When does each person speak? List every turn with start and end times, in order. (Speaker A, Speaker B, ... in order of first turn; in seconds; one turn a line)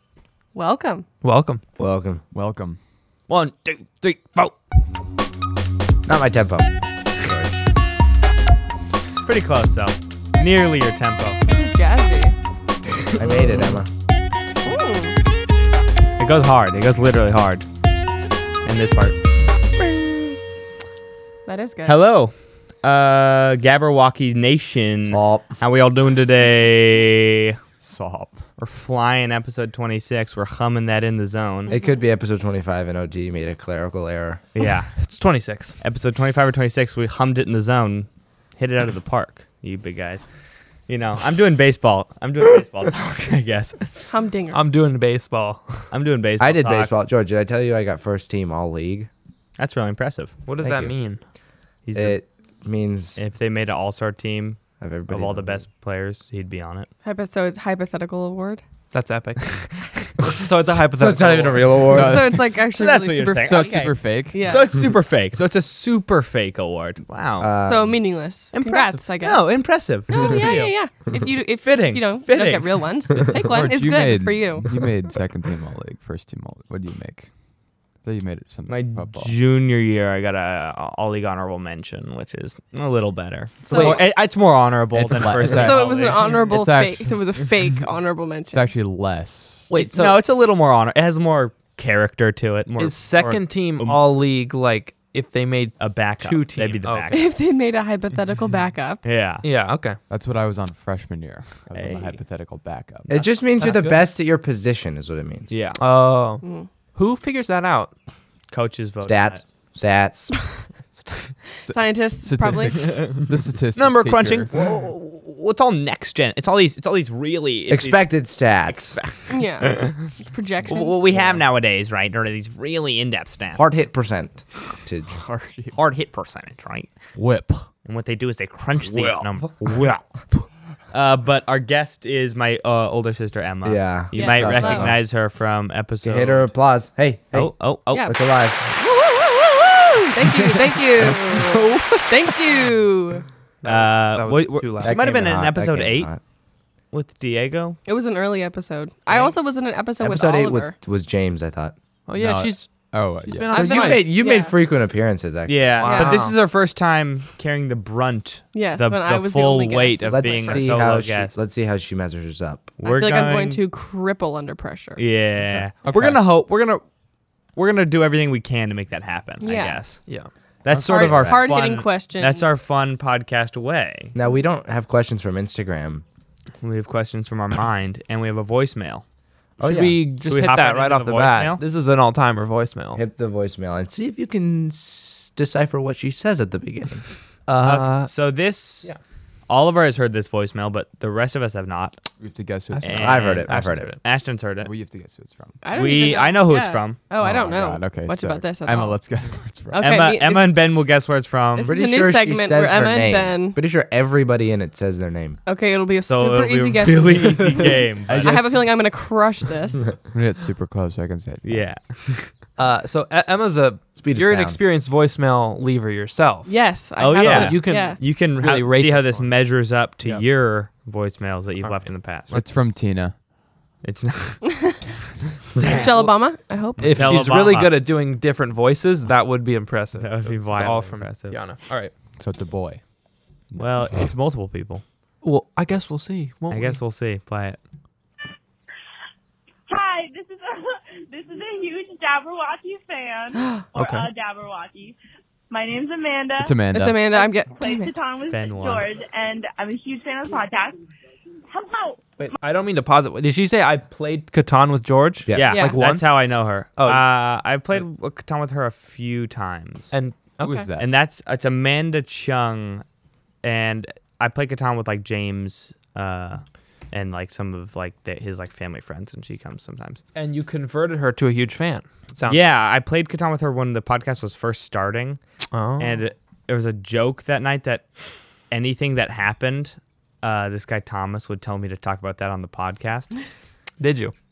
Speaker A: 0.5-1.1
Speaker B: 1.2-1.6
Speaker C: 1.8-2.2
Speaker D: 2.3-2.8
Speaker E: 3.3-4.6
Speaker C: 6.1-6.7
Speaker C: 7.2-7.6
Speaker E: 9.2-11.4
Speaker A: 11.5-12.3
Speaker C: 13.2-13.9
Speaker A: 14.6-15.2
Speaker E: 16.2-17.7
Speaker E: 18.6-19.1
Speaker E: 19.8-20.2
Speaker A: 21.5-22.0
Speaker E: 21.9-27.6
Speaker C: 25.1-25.5
Speaker D: 27.8-28.4
Speaker E: 28.6-31.7
Speaker C: 31.7-34.4
Speaker E: 34.5-34.9
Speaker B: 35.0-35.8
Speaker E: 35.8-40.2
Speaker E: 40.9-44.1
Speaker A: 44.1-44.6
Speaker B: 44.5-45.9
Speaker E: 45.9-47.0
Speaker C: 46.4-49.1
Speaker E: 49.6-50.4
Speaker B: 50.5-51.2
Speaker C: 50.6-50.9
Speaker E: 51.9-52.2
Speaker C: 51.9-53.2
Speaker E: 53.2-56.9
Speaker C: 54.8-55.6
Speaker A: 57.0-58.6
Speaker B: 58.9-59.7
Speaker B: 60.2-61.9
Speaker C: 60.9-62.3
Speaker D: 61.9-62.7
Speaker A: 62.0-64.7
Speaker E: 62.7-67.5
Speaker D: 63.4-64.4
Speaker C: 67.4-68.0
Speaker A: 67.7-74.8
Speaker E: 68.5-71.0
Speaker E: 71.6-72.8
Speaker D: 73.4-77.4
Speaker D: 77.9-79.4
Speaker E: 78.7-86.2
Speaker A: 83.7-84.1
Speaker D: 84.9-87.5
Speaker A: 85.5-88.7
Speaker D: 88.5-89.7
Speaker B: 89.7-90.2
Speaker E: 89.7-94.0
Speaker B: 92.8-97.2
Speaker E: 95.8-97.2
Speaker A: 97.1-99.0
Speaker E: 99.0-99.4
Speaker B: 99.4-100.0
Speaker D: 100.1-103.1
Speaker E: 101.7-102.1
Speaker C: 103.1-105.5
Speaker B: 103.6-104.0
Speaker E: 105.5-105.8
Speaker B: 105.8-106.4
Speaker A: 106.4-106.7
Speaker B: 107.0-107.9
Speaker E: 108.5-109.4
Speaker C: 109.0-110.3
Speaker D: 111.7-114.5
Speaker A: 111.7-113.1
Speaker E: 113.8-120.0
Speaker C: 117.7-119.0
Speaker A: 119.3-121.3
Speaker E: 120.7-123.7
Speaker C: 123.5-125.2
Speaker D: 125.2-125.8
Speaker E: 125.7-126.9
Speaker D: 127.2-127.7
Speaker E: 127.8-130.2
Speaker E: 130.9-136.5
Speaker C: 133.6-135.0
Speaker A: 134.2-134.9
Speaker C: 136.0-138.6
Speaker E: 137.3-138.1
Speaker A: 137.9-138.2
Speaker A: 138.7-143.2
Speaker B: 143.6-145.1
Speaker E: 143.6-146.1
Speaker C: 144.8-146.2
Speaker E: 146.9-147.8
Speaker A: 147.8-150.7
Speaker C: 150.0-151.8
Speaker B: 152.1-154.1
Speaker D: 152.2-153.6
Speaker A: 153.5-154.5
Speaker C: 153.5-155.8
Speaker E: 155.5-161.3
Speaker B: 155.8-156.4
Speaker A: 155.9-156.2
Speaker A: 158.5-160.8
Speaker C: 160.1-162.8
Speaker E: 162.8-163.6
Speaker A: 162.9-165.0
Speaker E: 165.0-166.8
Speaker D: 165.4-166.2
Speaker E: 167.6-170.0
Speaker A: 169.4-169.8
Speaker E: 170.6-174.1
Speaker D: 170.8-171.4
Speaker A: 170.9-172.6
Speaker C: 174.2-176.0
Speaker E: 176.6-179.0
Speaker C: 179.6-180.0
Speaker B: 179.6-183.0
Speaker E: 180.3-181.6
Speaker C: 182.9-187.1
Speaker B: 187.5-188.1
Speaker E: 187.6-188.9
Speaker E: 189.5-192.0
Speaker D: 192.2-193.4
Speaker E: 192.8-194.7
Speaker C: 192.9-193.9
Speaker B: 193.4-194.0
Speaker D: 194.6-195.6
Speaker A: 195.6-199.0
Speaker E: 195.7-197.0
Speaker D: 197.2-200.0
Speaker A: 199.7-200.6
Speaker E: 199.8-201.7
Speaker A: 201.6-203.6
Speaker C: 201.6-205.4
Speaker A: 205.5-210.0
Speaker E: 206.1-208.4
Speaker D: 208.1-208.8
Speaker D: 210.0-211.8
Speaker E: 211.4-212.3
Speaker B: 212.6-216.6
Speaker C: 214.0-214.6
Speaker A: 216.5-218.0
Speaker E: 217.0-222.4
Speaker B: 217.2-219.4
Speaker D: 222.3-223.2
Speaker E: 223.8-224.6
Speaker E: 225.6-226.1
Speaker B: 225.7-226.1
Speaker A: 225.7-227.2
Speaker B: 226.8-231.9
Speaker E: 226.8-227.8
Speaker E: 230.0-231.4
Speaker D: 232.2-232.8
Speaker D: 233.5-233.9
Speaker E: 233.6-234.8
Speaker B: 235.2-236.8
Speaker E: 236.5-237.6
Speaker F: 239.7-245.0
Speaker A: 243.4-243.6
Speaker B: 243.8-244.1
Speaker F: 245.5-250.8
Speaker D: 246.4-247.0
Speaker A: 246.7-247.9
Speaker E: 248.3-248.9
Speaker F: 251.5-252.3
Speaker B: 252.2-256.2
Speaker C: 255.2-255.6
Speaker E: 255.3-259.9
Speaker A: 255.5-255.8
Speaker B: 256.8-257.1
Speaker B: 259.9-260.7
Speaker D: 260.4-260.9
Speaker E: 260.8-262.8
Speaker E: 263.4-270.0
Speaker B: 270.1-272.4
Speaker E: 272.3-275.2
Speaker B: 275.5-276.0
Speaker E: 275.8-277.9
Speaker E: 278.5-283.1
Speaker B: 283.8-284.1